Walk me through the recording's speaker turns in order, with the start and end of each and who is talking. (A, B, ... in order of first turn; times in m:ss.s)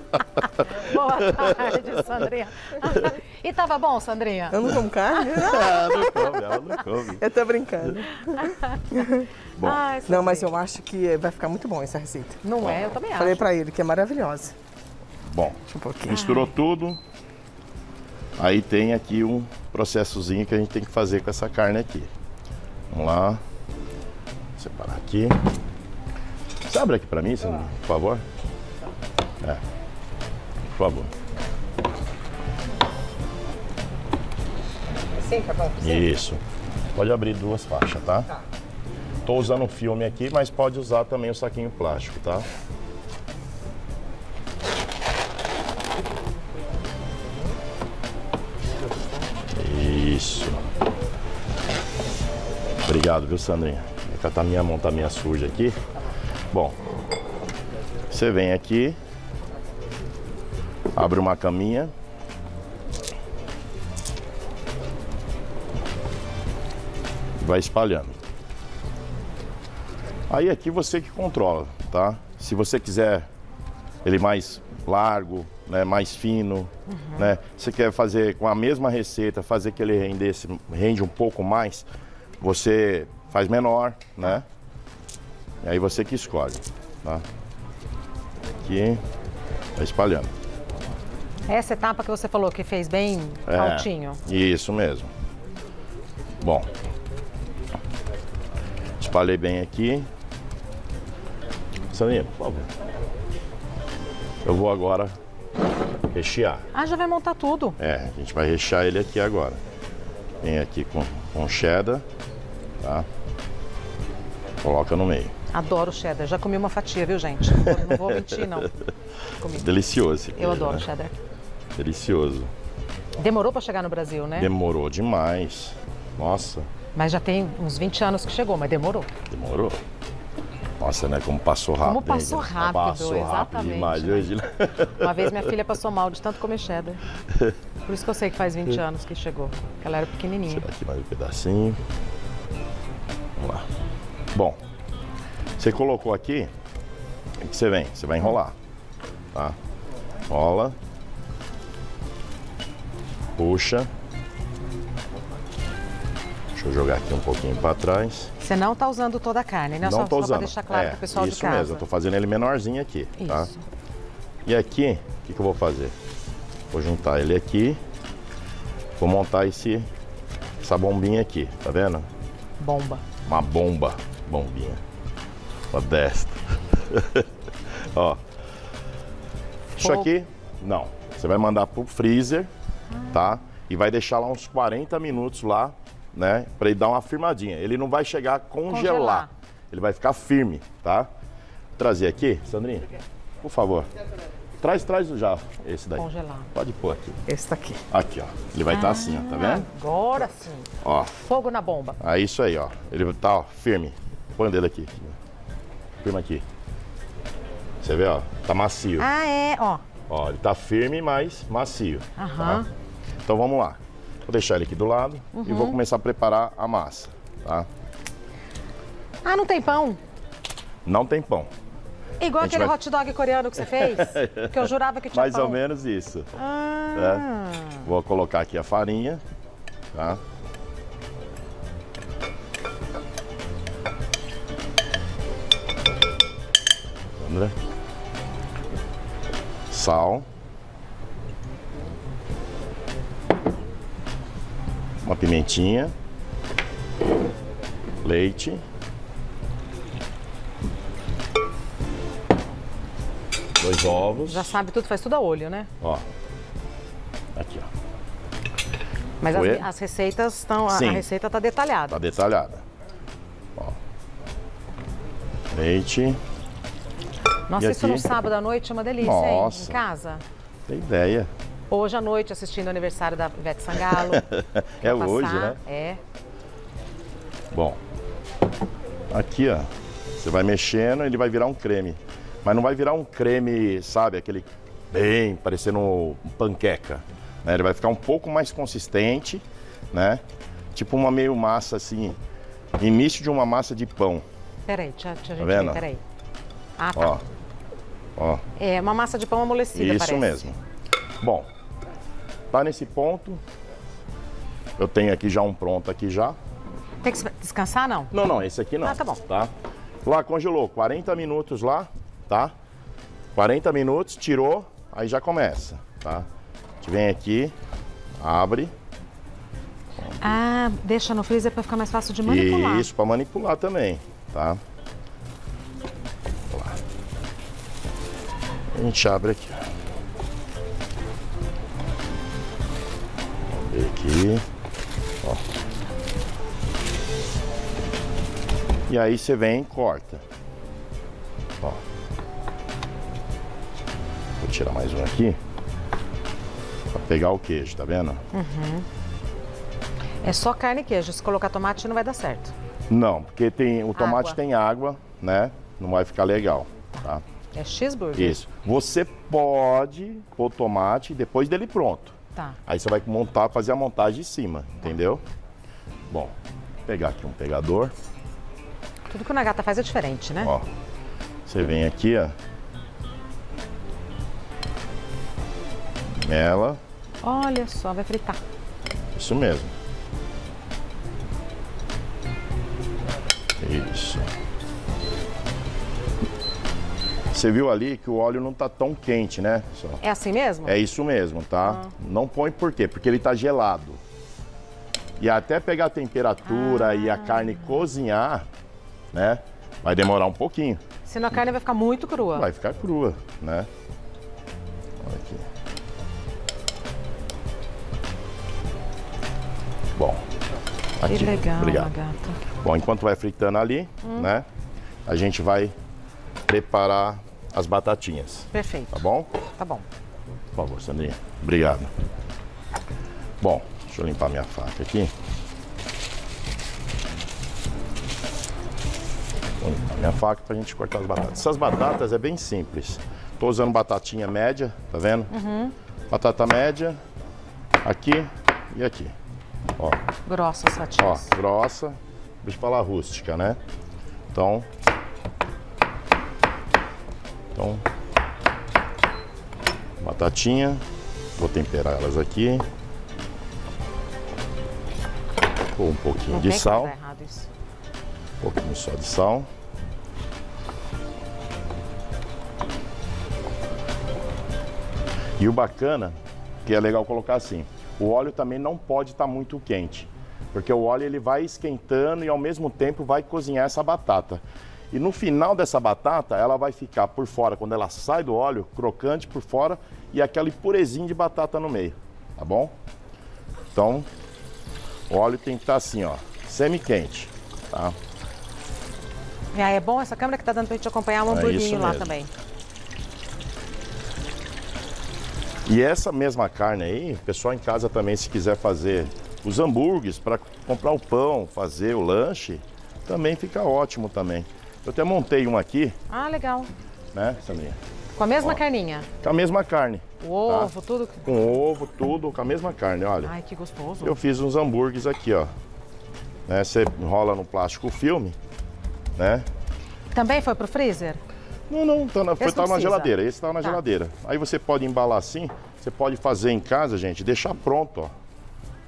0:00.6-0:06.3 A
0:04.5-0:05.8 B
0:05.4-0:07.2 C
0:07.2-0:09.2 B
0:09.6-0:10.6 A
0:10.0-0:12.4 B
0:12.4-0:13.5 A
0:13.1-0:14.5 B
0:15.2-0:17.0 C
0:15.7-0:16.3 B
0:16.1-0:16.5 A
0:18.4-0:22.1 C
0:22.9-0:23.4 C
0:24.6-0:25.4 C
0:26.7-0:28.2 C
0:30.7-0:31.1 C
0:35.2-0:35.9 A
0:35.8-0:36.4 C
0:36.9-0:38.3 C
0:39.2-0:42.4 C
0:49.5-0:50.7 C
0:52.8-0:55.8 C
0:56.5-0:56.8 C
0:58.1-0:59.0 C
1:00.9-1:01.9 C
1:07.4-1:08.2 C
1:10.3-1:13.3 C
1:14.0-1:21.9 C
1:16.9-1:17.2 A
1:22.4-1:24.4 C
1:25.6-1:27.2 C
1:28.6-1:29.0 C
1:29.8-1:30.3 C
1:31.5-1:34.2 A
1:33.4-1:35.1 C
1:36.4-1:36.7 C
1:39.0-1:40.1 C
1:41.9-1:42.7 C
1:44.4-1:45.1 C
1:46.1-1:46.6 C
1:46.7-1:47.8 A
1:47.8-1:49.6 C
1:50.4-1:52.0 C
1:52.8-1:53.1 C
1:54.6-1:55.3 C
1:55.5-1:58.7 A
1:57.6-1:58.7 C
1:59.4-1:59.7 A
1:59.5-2:00.8 C
2:00.4-2:01.1 A
2:01.8-2:02.5 C
2:03.2-2:04.5 A
2:04.3-2:06.7 C
2:06.9-2:09.1 A
2:09.3-2:09.8 C
2:10.8-2:15.5 C
2:11.8-2:14.3 A
2:15.0-2:17.0 A
2:17.8-2:20.6 A
2:20.5-2:21.8 C
2:23.4-2:23.7 C
2:25.6-2:26.5 C
2:27.4-2:28.5 C
2:30.3-2:30.8 C
2:33.4-2:33.9 C
2:36.5-2:38.3 C
2:38.4-2:41.8 A
2:39.8-2:43.5 C
2:43.2-2:43.6 A
2:44.4-2:45.9 C
2:46.7-2:47.8 C
2:49.0-2:49.9 C
2:50.6-2:52.1 C
2:52.6-2:53.0 A
2:53.2-2:54.8 C
2:55.7-2:58.2 C
2:59.8-3:02.5 C
2:59.8-3:00.1 A
3:03.1-3:11.1 C
3:08.7-3:09.3 A
3:11.8-3:12.9 C
3:13.4-3:13.9 C
3:14.6-3:17.2 C
3:16.0-3:16.5 A
3:17.3-3:17.7 B
3:17.3-3:17.7 A
3:17.9-3:19.7 C
3:18.7-3:22.0 A
3:20.8-3:21.1 C
3:22.0-3:25.2 C
3:26.0-3:26.4 C
3:27.8-3:29.1 C
3:29.0-3:29.8 A
3:30.1-3:32.6 C
3:32.2-3:32.7 A
3:33.2-3:37.7 C
3:35.3-3:35.8 A
3:39.2-3:40.0 A
3:40.8-3:41.5 C
3:42.2-3:45.6 A
3:42.4-3:42.7 C
3:43.6-3:46.3 C
3:46.4-3:47.8 A
3:46.9-3:47.3 C
3:47.8-3:49.2 C
3:49.9-3:50.2 C
3:57.2-3:57.5 C
3:59.7-4:00.3 C
4:05.0-4:05.9 C
4:08.0-4:08.6 C
4:13.6-4:14.6 C
4:14.3-4:15.7 A
4:17.3-4:17.7 C
4:19.2-4:22.1 A
4:19.3-4:19.7 C
4:20.7-4:21.0 C
4:21.9-4:22.6 C
4:25.5-4:26.2 C
4:27.5-4:30.2 A
4:27.5-4:28.1 C
4:29.0-4:29.8 C
4:30.7-4:31.3 C
4:31.7-4:34.3 A
4:33.9-4:35.6 C
4:34.8-4:36.0 A
4:37.5-4:37.8 C
4:39.1-4:50.2 C
4:50.7-4:52.2 C
4:52.8-4:54.2 C
4:54.7-4:56.0 A
4:55.4-4:55.8 C
4:56.8-4:57.2 A
4:57.0-4:57.2 C
4:58.2-4:58.4 C
4:58.6-5:00.5 A
4:59.7-5:00.6 C
5:01.2-5:01.5 C
5:02.5-5:03.4 C
5:04.8-5:06.4 C
5:07.0-5:08.1 A
5:08.1-5:09.5 C
5:08.8-5:09.2 A
5:10.0-5:12.5 C
5:13.3-5:16.3 C
5:16.8-5:17.5 C
5:18.2-5:18.7 C
5:20.0-5:20.4 C
5:20.2-5:22.9 A
5:22.2-5:24.6 C
5:26.5-5:26.8 C
5:28.7-5:29.6 C
5:33.5-5:34.4 C
5:38.9-5:40.2 C
5:44.4-5:45.4 C
5:46.9-5:48.2 C
5:48.3-5:48.8 A
5:50.2-5:52.5 A
5:52.9-5:57.2 C
5:54.0-5:54.4 A
5:57.5-5:58.4 A
5:58.2-6:02.1 C
6:02.6-6:05.2 C
6:06.1-6:06.3 C
6:06.8-6:07.9 C
6:09.1-6:10.5 A
6:10.4-6:10.7 C
6:11.4-6:12.3 C
6:16.1-6:16.8 C
6:17.2-6:18.4 A
6:19.1-6:19.7 C
6:23.6-6:24.3 C
6:27.3-6:30.0 C
6:30.0-6:30.8 A
6:30.6-6:34.0 C
6:31.6-6:31.9 A
6:35.2-6:38.4 C
6:36.4-6:37.7 A
6:39.1-6:40.8 C
6:41.0-6:42.5 A
6:42.3-6:43.7 C
6:45.0-6:45.5 C
6:50.0-6:50.2 C
6:51.0-6:51.9 C
6:51.0-6:52.4 A
6:52.6-6:54.4 C
6:54.0-6:54.3 A
6:55.0-6:55.7 C
6:56.5-6:59.3 C
6:58.5-6:59.0 A
6:59.6-6:59.8 A
7:00.5-7:01.9 C
7:03.4-7:05.1 C
7:09.6-7:15.3 C
7:15.3-7:15.7 A
7:16.1-7:17.0 C
7:17.8-7:19.1 C
7:20.2-7:21.3 A
7:21.0-7:23.6 C
7:24.3-7:24.7 C
7:27.5-7:27.8 C
7:30.0-7:30.8 C
7:31.4-7:32.6 C
7:35.7-7:36.9 C
7:36.3-7:37.5 A
7:38.4-7:39.5 C
7:45.4-8:02.7 C
8:03.7-8:04.1 C
8:05.1-8:08.0 C
8:09.5-8:12.3 A
8:11.3-8:12.1 C
8:15.6-8:25.9 C
8:26.1-8:26.7 A
8:27.1-8:27.8 C
8:28.2-8:29.1 A
8:29.2-8:30.7 C
8:30.2-8:31.2 A
8:31.2-8:33.3 C
8:33.2-8:34.2 A
8:34.0-8:35.5 C
8:36.5-8:38.4 C
8:39.2-8:39.5 C
8:40.1-8:41.2 A
8:41.7-8:48.1 C
8:42.4-8:43.8 A